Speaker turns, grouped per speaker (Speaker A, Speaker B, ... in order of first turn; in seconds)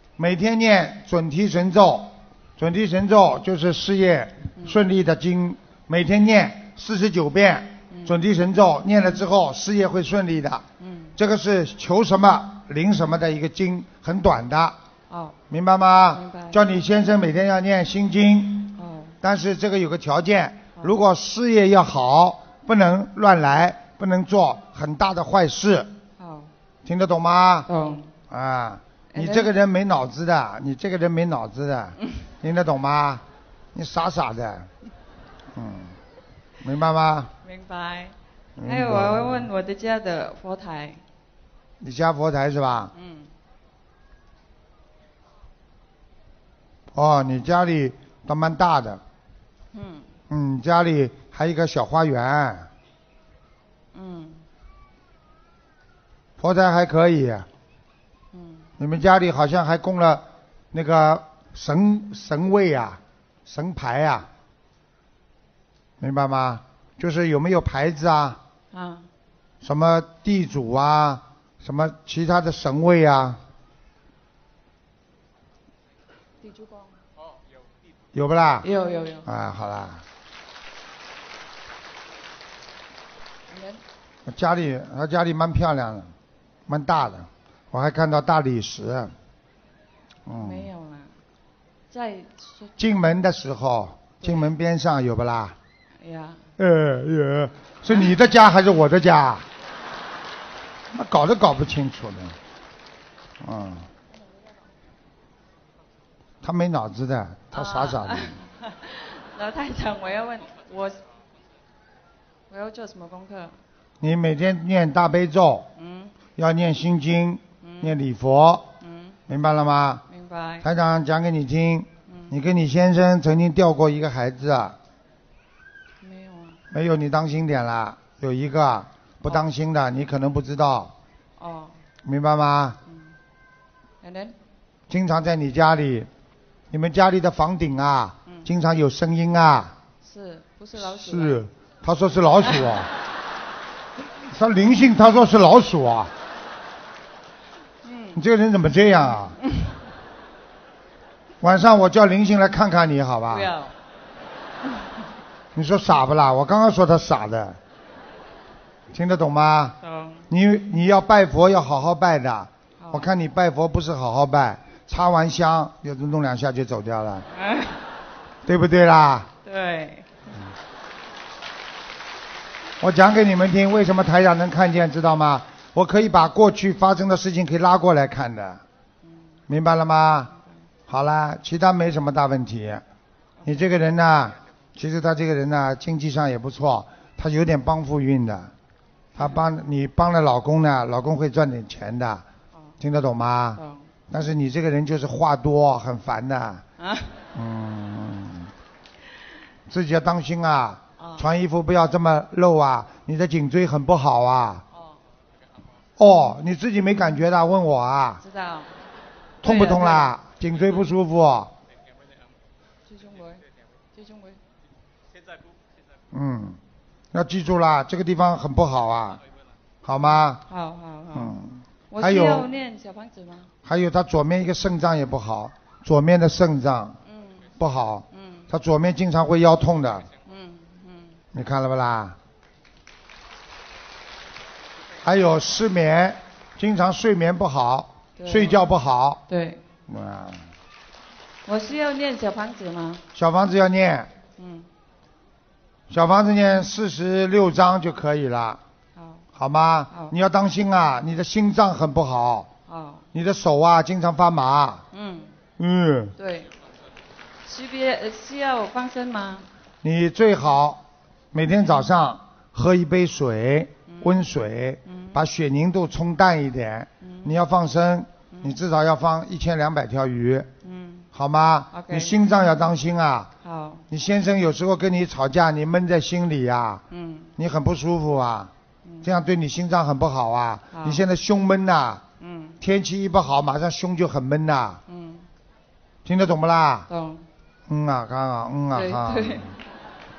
Speaker A: 0.2-10.6, 11.2-14.8, 15.5-25.9, 26.9-27.7, 28.3-33.2, 33.7-34.7, 35.5-36.0, 36.6-37.3, 38.6-39.5, 41.8-42.9, 46.9-49.0, 50.3-52.7, 56.4-57.5, 58.8-64.3, 66.0-68.4, 69.6-73.4, 78.1-78.7, 79.2-80.0, 84.3-86.1, 86.7-89.1, 90.3-90.7, 92.8-95.6, 96.6-99.5, 100.9-102.4, 103.4-103.9, 106.4-108.4, 114.0-115.7, 116.4-118.7, 119.3-120.0, 120.6-124.8, 126.7-130.9, 132.1-132.8, 134.9-136.1, 136.7-139.7, 140.8-142.9, 144.2-146.1, 148.2-149.4, 151.4-153.5, 155.6-157.6, 158.9-159.8, 160.3-167.3, 168.5-169.3, 172.8-178.6, 179.5-180.3, 180.9-182.8, 183.4-188.5, 189.2-192.2, 192.8-196.6, 197.3-198.5, 199.7-204.6, 206.0-208.2, 209.4-211.5, 216.1-216.6, 217.1-219.2, 219.8-220.4, 221.1-222.5, 223.7-227.0, 227.6-230.1, 231.3-232.2, 235.0-239.2, 239.9-240.5, 243.1-244.1, 245.9-248.6, 249.4-252.5, 253.1-254.8, 255.6-256.1, 259.8-270.5, 271.1-273.3, 273.9-276.8, 277.4-278.5, 279.0-282.0, 282.6-284.8, 286.1-286.9, 287.7-289.5
Speaker B: 7.9-8.2, 10.8-11.2, 15.1-15.4, 16.1-16.6, 18.8-19.2, 26.2-26.5, 27.7-28.1, 29.1-29.5, 37.4-41.0, 42.9-43.3, 49.7-50.1, 53.9-54.4, 58.3-58.7, 68.7-69.1, 76.4-77.0, 78.6-79.3, 83.5-83.8, 90.3-91.2, 91.9-92.7, 94.2-94.5, 96.0-96.5, 107.5-111.0, 112.5-113.6, 115.8-116.2, 117.6-118.0, 118.8-119.2, 120.1-120.7, 122.1-122.3, 126.0-126.6, 131.4-131.8, 132.9-133.2, 134.0-134.4, 140.0-141.4, 147.8-148.2, 153.3-153.8, 159.8-160.3, 162.8-163.1, 167.3-167.8, 169.4-170.2, 193.6-193.9, 196.8-197.2, 201.0-201.2, 204.7-205.0, 208.2-208.8, 209.4-210.2, 212.9-214.4, 220.5-221.4, 221.9-223.5, 227.1-227.5, 228.1-228.5, 230.2-231.2, 238.2-238.6, 239.3-239.6, 241.5-243.1, 244.4-244.7, 249.0-249.2, 252.7-253.1, 254.9-255.4, 256.2-256.5, 257.4-259.5, 263.9-264.3, 264.9-265.2, 267.0-267.4, 270.6-271.1, 271.7-272.1, 273.4-273.9, 276.9-277.3, 280.7-281.0, 282.2-282.6, 284.9-285.3, 286.9-287.3, 288.7-289.6